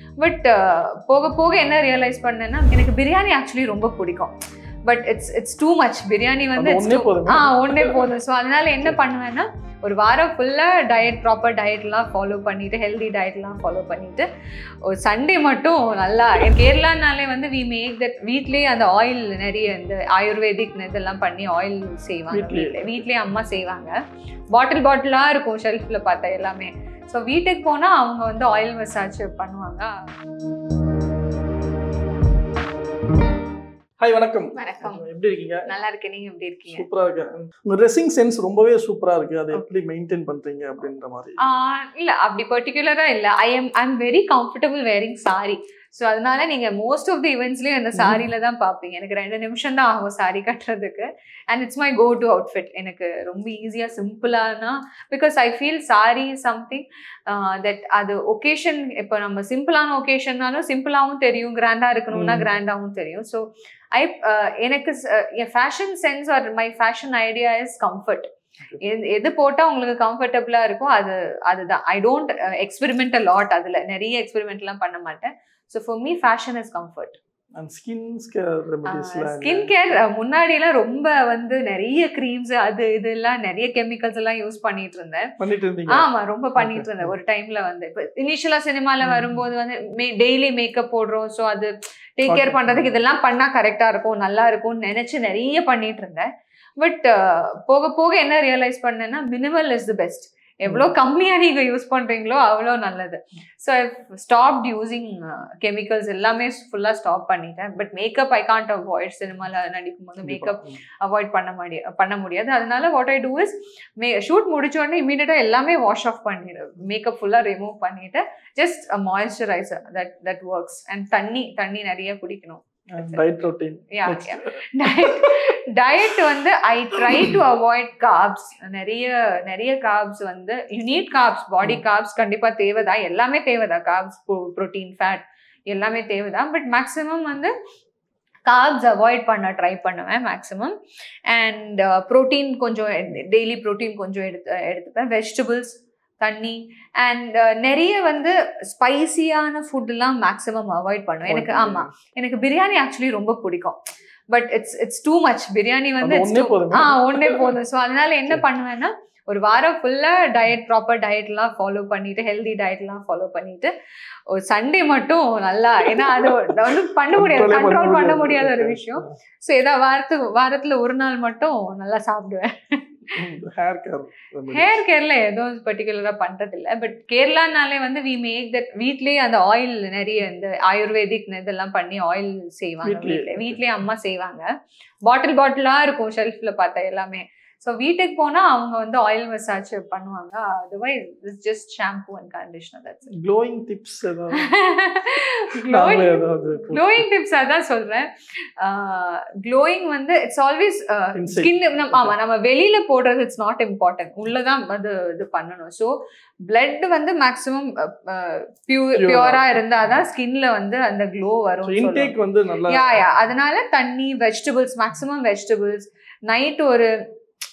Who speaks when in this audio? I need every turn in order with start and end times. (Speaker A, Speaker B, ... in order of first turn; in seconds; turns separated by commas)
Speaker A: 0.2-4.3, Speaker A: 4.8-14.3, Speaker B: 6.5-8.1, Speaker A: 14.8-23.9, Speaker B: 22.3-23.1, Speaker A: 24.5-29.9, Speaker B: 34.0-35.6, Speaker A: 34.5-35.0, Speaker A: 35.7-36.9, Speaker B: 36.7-41.4, Speaker A: 41.4-63.4, Speaker B: 47.9-48.2, Speaker B: 62.1-62.5, Speaker A: 63.9-68.3, Speaker A: 68.8-77.2, Speaker B: 77.5-79.7, Speaker A: 78.9-85.2, Speaker B: 85.4-87.1, Speaker A: 85.9-96.3, Speaker B: 89.0-89.5, Speaker B: 92.2-93.0, Speaker A: 96.8-123.2, Speaker B: 100.7-100.9, Speaker B: 110.2-110.8, Speaker B: 122.9-125.5, Speaker A: 123.9-137.5, Speaker B: 127.0-127.4, Speaker A: 138.4-140.8, Speaker A: 141.3-153.8, Speaker B: 151.2-151.9, Speaker A: 154.3-163.7, Speaker B: 156.0-157.6, Speaker A: 164.3-173.0, Speaker B: 165.8-169.1, Speaker B: 173.1-174.8, Speaker A: 174.5-184.5, Speaker B: 182.8-183.6, Speaker A: 185.0-193.1, Speaker B: 193.2-194.5, Speaker A: 194.4-198.1, Speaker B: 195.6-197.1, Speaker A: 198.6-205.9, Speaker B: 201.2-202.1, Speaker A: 206.5-212.1, Speaker B: 208.9-209.5, Speaker B: 211.6-213.1, Speaker A: 212.7-216.9